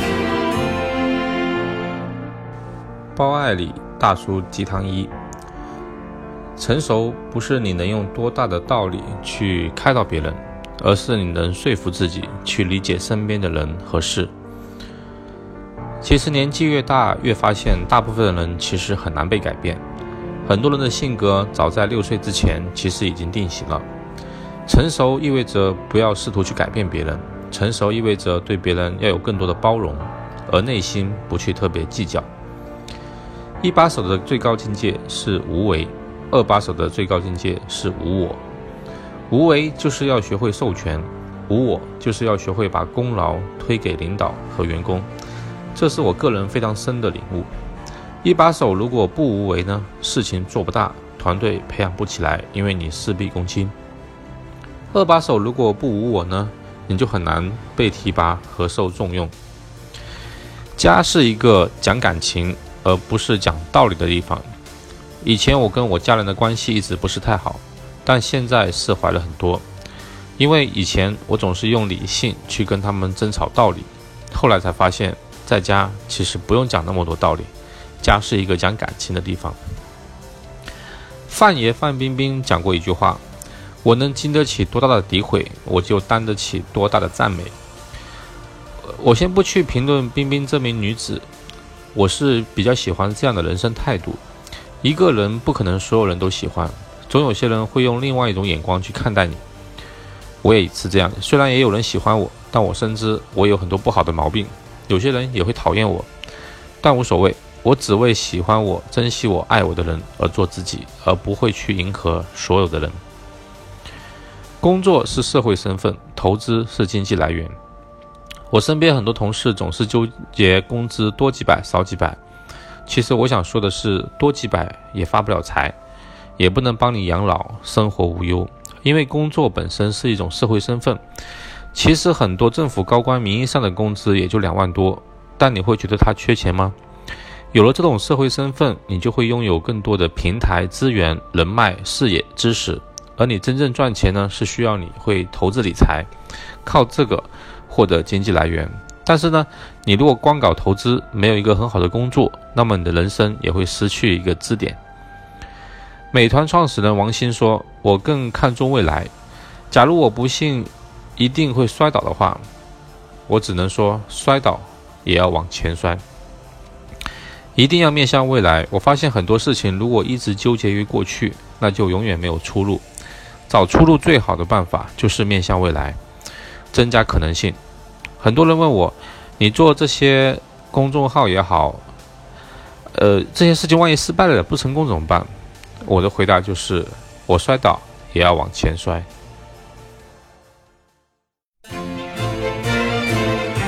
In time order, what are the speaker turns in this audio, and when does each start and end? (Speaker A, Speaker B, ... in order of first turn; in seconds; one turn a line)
Speaker A: 3.1-5.1
Speaker A: 6.6-14.3
Speaker A: 16.0-19.8
Speaker A: 20.4-23.9
Speaker A: 24.7-32.3
Speaker A: 33.6-38.4
Speaker A: 39.3-45.1
Speaker A: 45.8-47.5
Speaker A: 48.2-53.7
Speaker A: 54.9-59.3
Speaker A: 60.8-64.5
Speaker A: 65.2-69.7
Speaker A: 70.4-79.6
Speaker A: 81.3-83.2
Speaker A: 83.8-87.6
Speaker A: 88.8-91.3
Speaker A: 91.9-94.2
Speaker A: 94.8-99.4
Speaker A: 100.4-106.1
Speaker A: 106.8-113.0
Speaker A: 114.6-117.5
Speaker A: 118.5-122.2
Speaker A: 122.9-125.8
Speaker A: 126.4-131.0
Speaker A: 131.7-136.8
Speaker A: 137.5-146.1
Speaker A: 146.6-154.8
Speaker A: 156.1-159.1
Speaker A: 159.7-162.5
Speaker A: 163.3-166.0
Speaker A: 167.6-172.8
Speaker A: 173.5-176.0
Speaker A: 176.7-177.6
Speaker A: 178.2-181.8
Speaker A: 182.9-185.3
Speaker A: 185.8-189.1